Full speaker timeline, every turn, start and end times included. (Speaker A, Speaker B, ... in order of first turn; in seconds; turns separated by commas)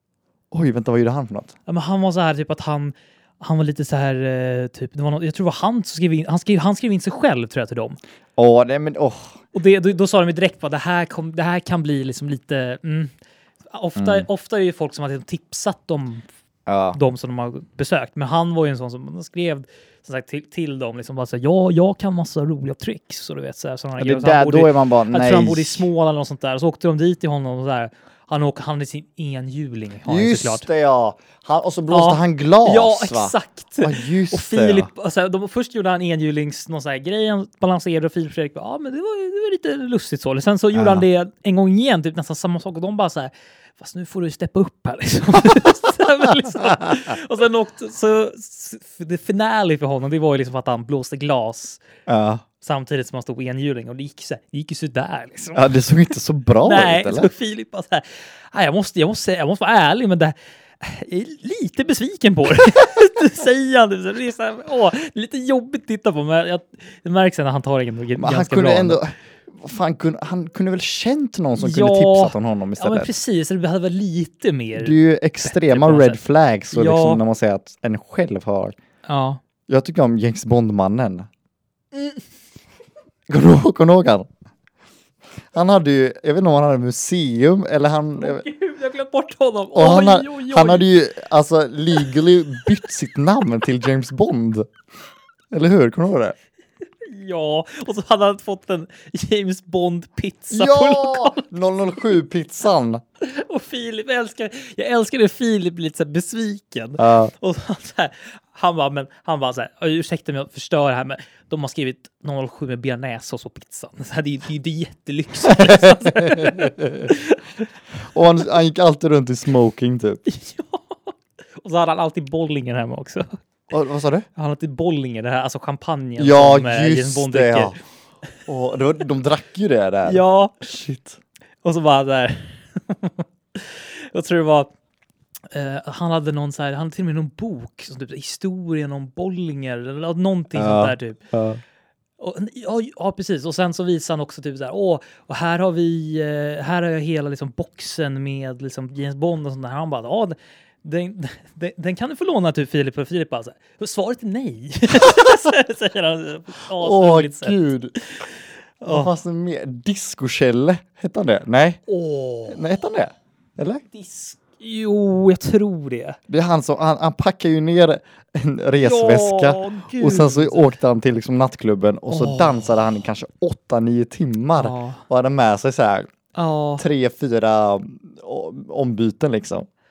Speaker A: 0.5-1.6, Speaker B: 1.7-8.0, Speaker A: 8.4-9.4, Speaker B: 9.5-13.1, Speaker B: 13.7-16.2, Speaker A: 14.0-14.3, Speaker A: 16.7-17.0, Speaker B: 16.9-30.7, Speaker A: 24.0-25.9, Speaker A: 30.1-34.9, Speaker B: 31.9-51.8, Speaker A: 40.7-41.0, Speaker A: 46.8-47.1, Speaker A: 52.1-52.4, Speaker B: 52.6-55.7, Speaker A: 55.5-57.3, Speaker B: 56.6-69.0, Speaker A: 68.2-73.1, Speaker B: 71.6-76.2, Speaker A: 74.8-78.8, Speaker B: 76.7-77.2, Speaker B: 79.1-79.4, Speaker A: 79.7-81.3, Speaker A: 83.3-84.3, Speaker A: 85.5-88.4, Speaker B: 88.2-90.9, Speaker A: 89.8-94.7, Speaker A: 95.5-96.3, Speaker B: 97.0-101.5, Speaker A: 100.5-103.0, Speaker B: 103.2-117.4, Speaker A: 107.0-107.3, Speaker A: 115.5-117.1, Speaker A: 118.0-120.2, Speaker B: 120.3-123.3, Speaker A: 123.7-124.3, Speaker B: 124.4-127.8, Speaker A: 126.2-127.8, Speaker A: 128.5-131.2, Speaker B: 130.1-130.6, Speaker B: 131.6-134.7, Speaker B: 135.5-141.3, Speaker A: 140.6-141.6, Speaker B: 142.2-159.1, Speaker A: 156.7-158.0, Speaker A: 158.8-161.8, Speaker B: 161.9-162.7, Speaker A: 162.5-163.8, Speaker B: 163.9-166.2, Speaker A: 166.3-176.1, Speaker B: 168.8-170.7, Speaker B: 172.1-172.7, Speaker B: 174.6-175.0, Speaker B: 176.3-176.8, Speaker A: 176.8-179.7